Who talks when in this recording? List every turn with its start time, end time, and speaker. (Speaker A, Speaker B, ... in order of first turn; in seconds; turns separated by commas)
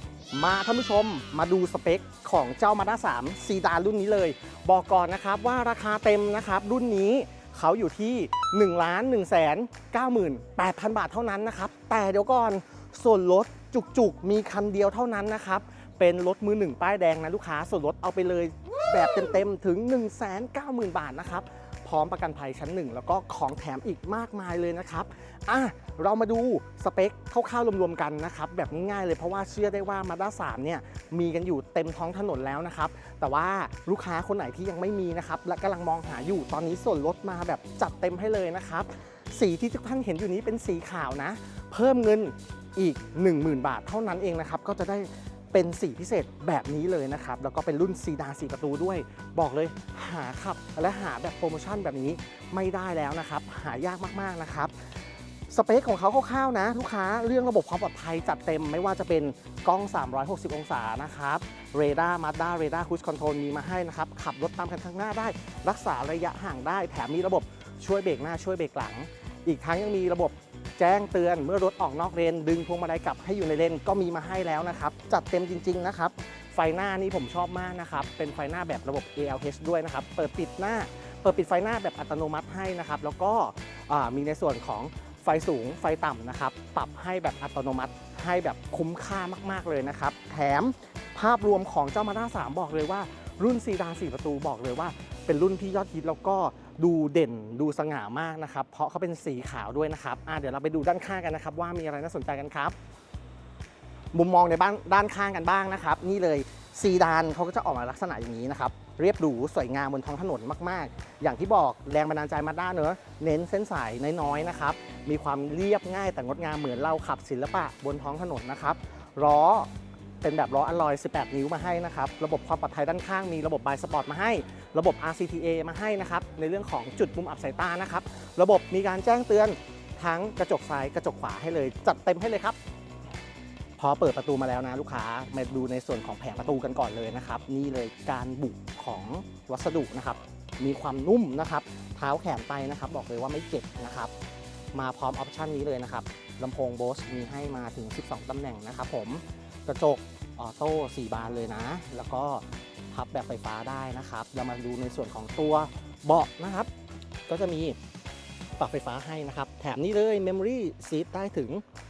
Speaker A: 0.3-54.7, Speaker A: 55.5-102.8, Speaker A: 104.1-119.7, Speaker A: 120.2-132.6, Speaker A: 133.8-144.1, Speaker A: 144.7-156.7, Speaker A: 157.3-157.8, Speaker A: 158.6-161.6